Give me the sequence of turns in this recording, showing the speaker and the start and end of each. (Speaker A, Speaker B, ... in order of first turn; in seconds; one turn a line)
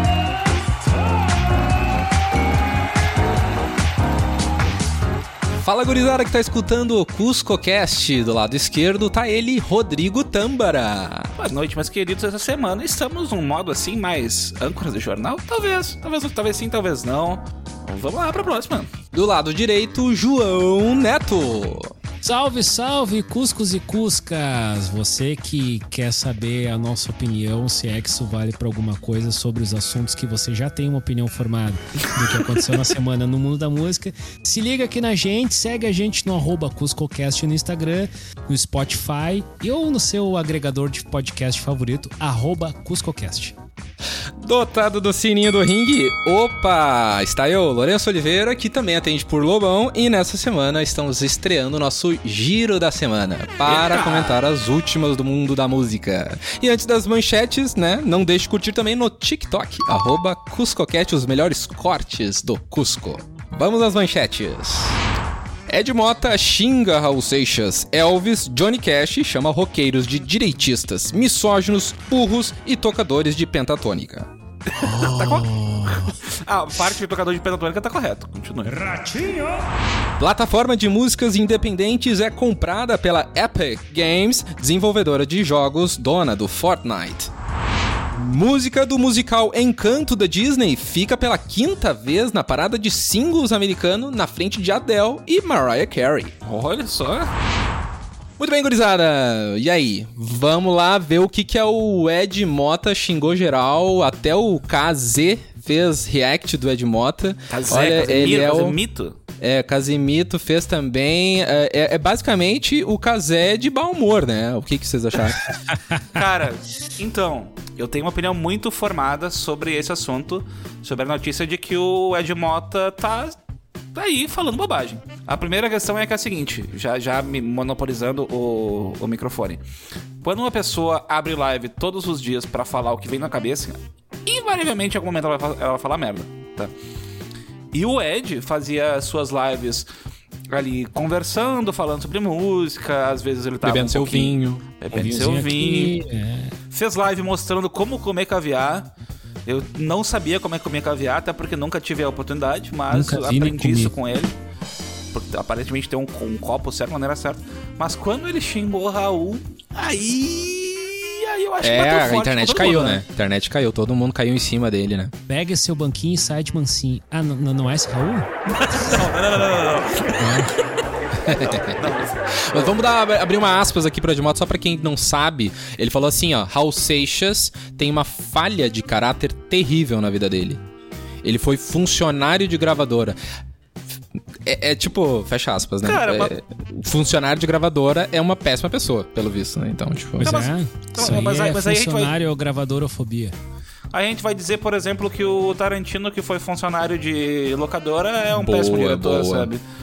Speaker A: 5.6-11.3
Speaker B: 11.4-18.9
Speaker A: 19.1-21.9
Speaker C: 22.2-43.5
Speaker A: 44.4-65.0
Speaker B: 53.6-54.4
Speaker A: 65.7-74.3
Speaker B: 74.7-78.8
Speaker C: 74.8-76.1
Speaker C: 78.7-79.6
Speaker A: 80.2-87.3
Speaker A: 88.2-96.3
Speaker B: 96.5-97.3
Speaker A: 98.4-108.8
Speaker B: 107.5-109.2
Speaker A: 109.4-115.5
Speaker C: 115.7-116.0
Speaker B: 116.1-123.4
Speaker B: 124.0-129.6
Speaker B: 130.2-136.7
Speaker B: 137.7-139.9
Speaker B: 140.5-145.9
Speaker A: 143.6-144.6
Speaker C: 144.9-146.6
Speaker B: 146.7-148.9
Speaker B: 149.4-154.3
Speaker C: 152.9-153.9
Speaker B: 155.1-163.0
Speaker A: 161.6-165.1
Speaker C: 165.3-168.3
Speaker B: 168.5-170.6
Speaker C: 170.2-170.5
Speaker A: 171.2-180.6
Speaker B: 171.2-172.8
Speaker A: 181.2-183.2
Speaker A: 184.4-190.4
Speaker B: 185.8-186.3
Speaker C: 190.2-193.3
Speaker B: 190.2-192.1
Speaker B: 193.9-199.6
Speaker A: 198.3-199.5